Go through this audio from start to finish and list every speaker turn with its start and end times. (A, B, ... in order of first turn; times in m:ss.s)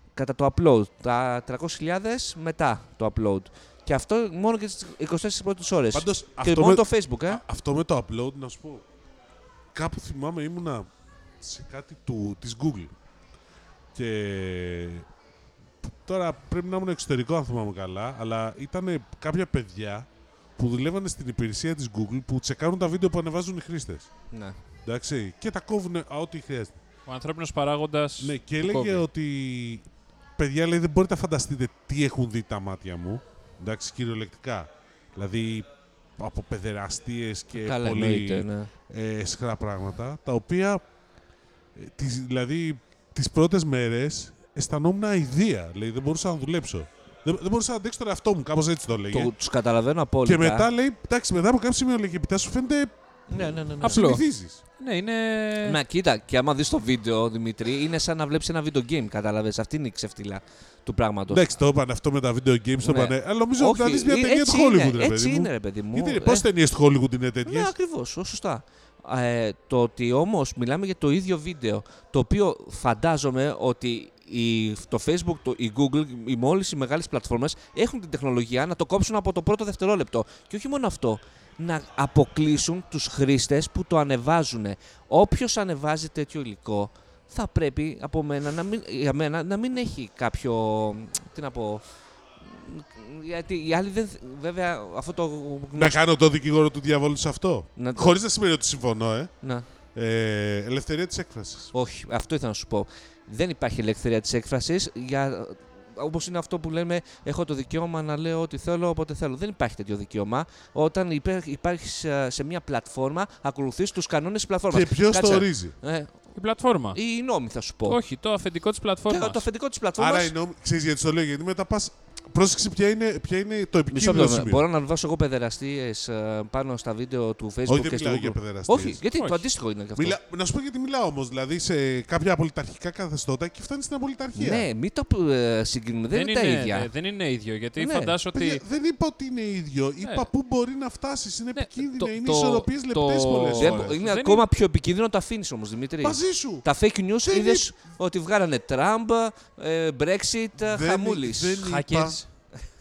0:00.2-0:07.4 A
0:05.9-0:08.8 B
0:09.7-0:10.9 B
0:11.4-0:12.9 B
0:14.0-0:15.1 B
0:15.9-0:20.1 B
0:20.6-0:24.1 B
0:24.3-0:24.6 A
0:24.8-0:26.8 B
0:27.1-0:29.0 C
0:28.2-0:29.8 B
0:30.4-0:40.8 B
0:37.6-0:38.7 A
0:41.8-0:49.3 B
0:49.1-0:50.7 A
0:50.2-0:54.6 B
0:53.3-0:54.1 A
0:53.8-0:54.2 C
0:54.8-0:55.8 C
0:55.6-1:01.5 A
1:01.3-1:07.7 B
1:02.8-1:06.4 A
1:07.4-1:31.8 A
1:32.4-1:36.0 A
1:35.8-1:39.3 B
1:37.8-1:38.2 A
1:39.4-1:39.7 A
1:40.0-1:41.7 B
1:41.7-1:56.1 A
1:54.7-1:55.8 B
1:56.4-1:57.0 C
1:56.9-1:58.0 A
1:57.9-1:59.4 C
1:59.1-2:00.3 A
2:00.0-2:04.6 B
2:03.9-2:10.2 A
2:07.7-2:09.0 B
2:09.2-2:09.4 C
2:10.0-2:14.7 B
2:14.4-2:16.9 A
2:16.1-2:18.6 C
2:17.8-2:18.2 A
2:18.3-2:23.9 B
2:21.6-2:24.4 C
2:23.6-2:31.6 A
2:26.0-2:26.7 B
2:27.2-2:27.7 B
2:30.6-2:32.2 B
2:31.6-2:32.3 C